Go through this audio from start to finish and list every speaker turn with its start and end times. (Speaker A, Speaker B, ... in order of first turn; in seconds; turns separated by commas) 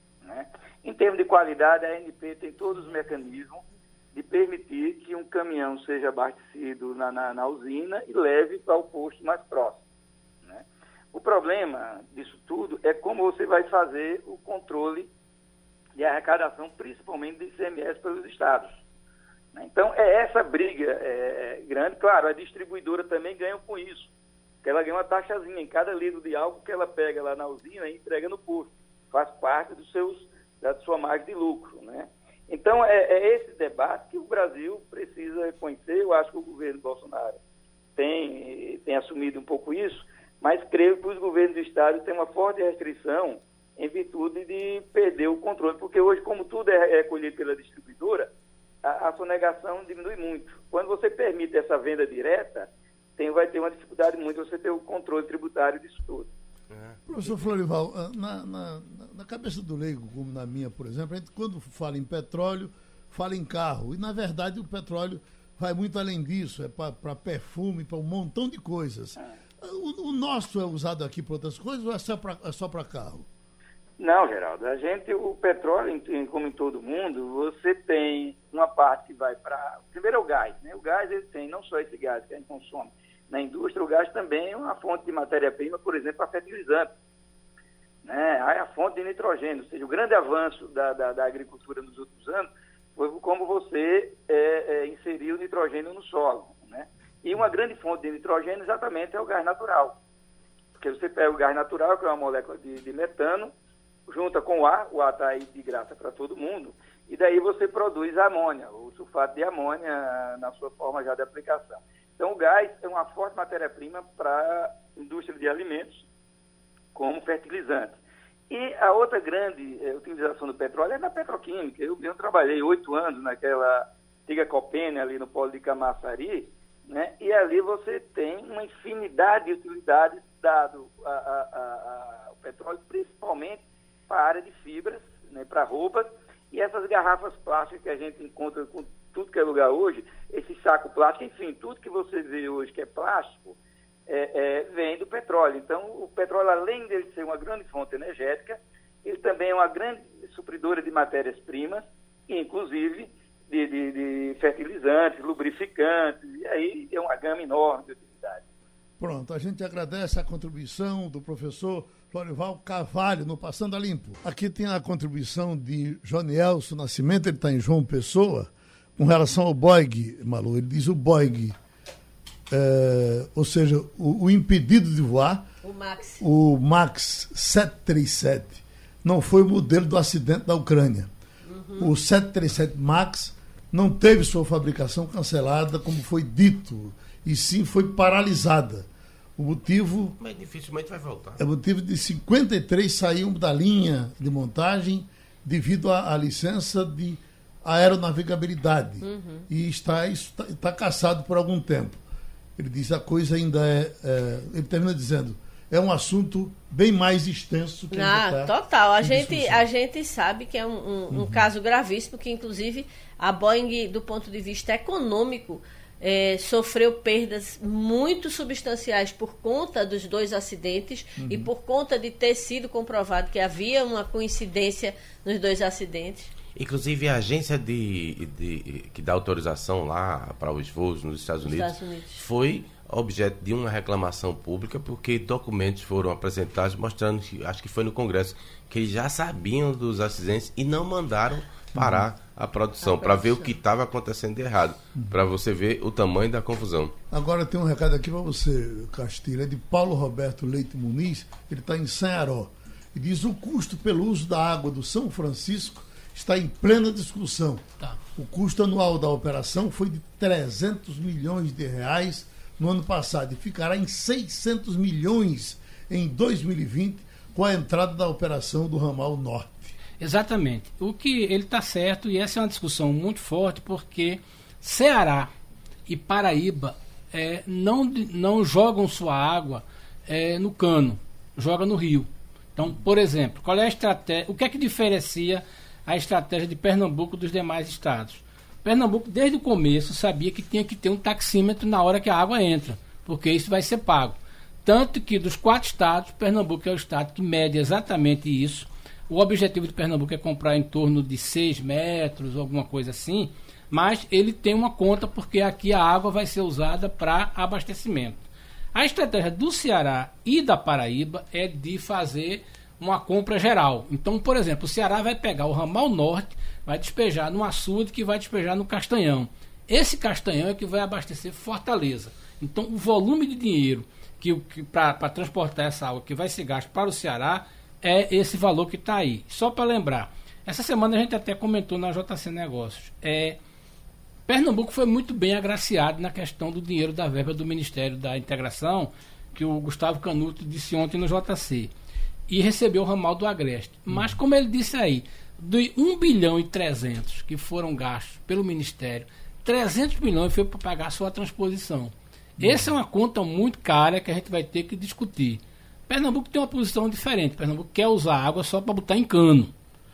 Speaker A: 0.2-3.6, Speaker A: 4.1-9.8, Speaker A: 10.4-15.1, Speaker A: 16.0-18.8, Speaker A: 19.5-24.1, Speaker A: 24.6-37.4, Speaker A: 38.0-48.3, Speaker A: 48.8-56.3, Speaker B: 56.7-57.4, Speaker C: 57.1-73.3, Speaker A: 74.0-86.9, Speaker A: 88.0-100.0, Speaker A: 100.8-103.5, Speaker A: 104.1-116.0, Speaker A: 116.9-118.0, Speaker A: 118.5-143.6, Speaker A: 144.1-158.4, Speaker C: 159.0-171.5, Speaker C: 172.5-175.5, Speaker D: 175.6-176.2, Speaker C: 176.2-181.1, Speaker D: 181.4-181.9, Speaker C: 181.8-190.2, Speaker B: 190.2-191.4, Speaker C: 191.4-202.0, Speaker D: 199.0-199.5, Speaker C: 202.6-209.7, Speaker D: 207.9-226.3, Speaker C: 211.1-211.4, Speaker C: 221.2-221.5, Speaker B: 226.6-246.9, Speaker D: 231.4-232.2, Speaker C: 241.7-242.0, Speaker D: 242.8-243.5, Speaker C: 247.1-269.7, Speaker E: 270.0-275.3, Speaker E: 275.9-333.4, Speaker E: 334.3-341.7, Speaker E: 342.3-359.5, Speaker C: 352.4-352.7